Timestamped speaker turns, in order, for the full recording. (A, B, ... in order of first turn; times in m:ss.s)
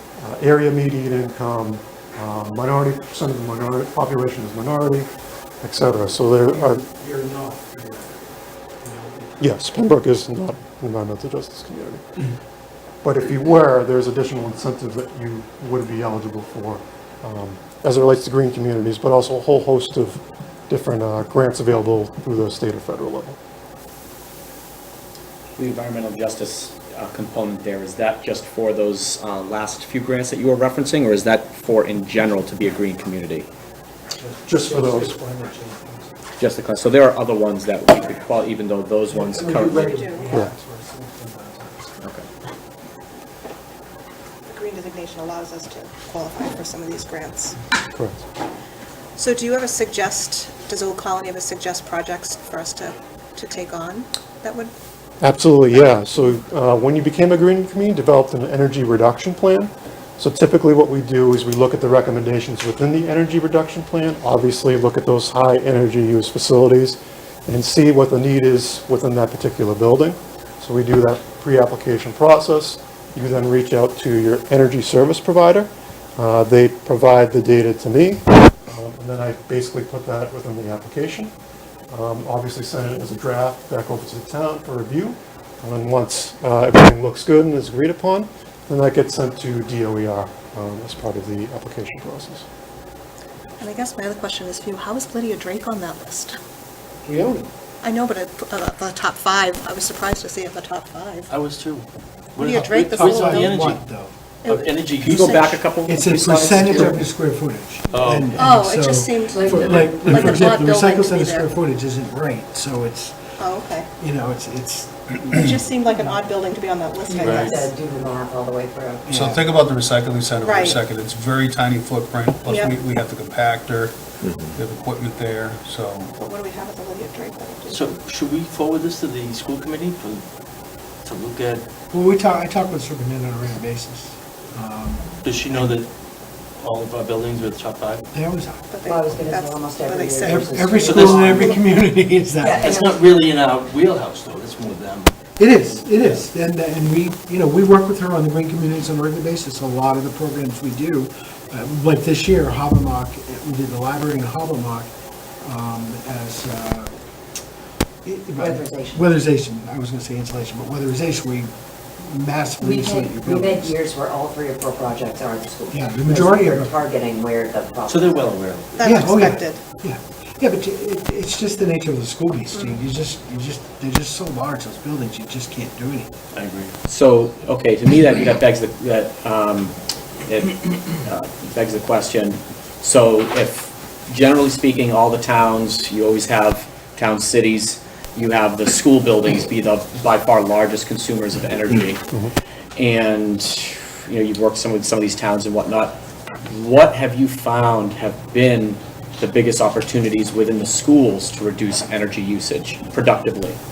0:00.2-0:05.1 A
0:05.6-0:06.8 A
0:06.5-0:08.2 B
0:08.8-0:09.4 B
0:09.4-0:12.0 A
0:13.0-0:23.4 A
0:25.6-0:33.5 C
0:34.2-0:36.1 B
0:34.5-0:35.1 A
0:36.4-0:39.8 C
0:39.1-0:42.1 B
0:39.4-0:40.3 D
0:44.5-0:47.6 D
0:47.9-0:48.2 A
0:49.2-0:54.7 D
0:55.2-1:21.3 A
1:21.9-1:32.4 A
1:33.6-1:36.3 D
1:37.0-1:37.5 B
1:37.8-1:41.3 D
1:41.3-1:43.8 E
1:42.4-1:43.6 D
1:42.9-1:44.1 B
1:44.4-1:45.6 D
1:44.4-1:45.6 E
1:45.0-1:47.0 C
1:45.8-1:53.2 B
1:47.9-1:48.4 E
1:48.3-1:51.5 D
1:49.3-1:49.8 F
1:53.4-1:53.9 D
1:54.0-1:55.3 B
1:55.3-1:57.7 D
1:57.0-1:59.1 F
1:57.2-1:57.6 E
1:59.0-1:59.4 B
1:59.1-2:06.1 G
2:00.4-2:00.8 D
2:02.4-2:02.8 D
2:06.2-2:08.0 D
2:07.7-2:10.2 E
2:11.0-2:11.6 E
2:11.9-2:15.8 B
2:15.2-2:15.9 E
2:16.6-2:18.0 E
2:18.1-2:18.6 B
2:18.7-2:20.6 D
2:18.8-2:21.6 F
2:20.2-2:22.7 B
2:20.8-2:21.2 E
2:22.4-2:23.0 F
2:22.5-2:25.1 E
2:25.4-2:34.9 B
2:25.8-2:26.2 E
2:35.4-2:36.9 B
2:38.0-2:43.8 B
2:38.4-2:39.0 F
2:42.6-2:48.4 F
2:45.7-2:46.8 B
2:47.9-2:49.0 E
2:48.8-2:49.6 D
2:48.8-2:56.1 B
2:56.3-2:56.7 E
2:56.8-2:59.7 C
3:00.2-3:12.0 C
3:12.8-3:23.6 C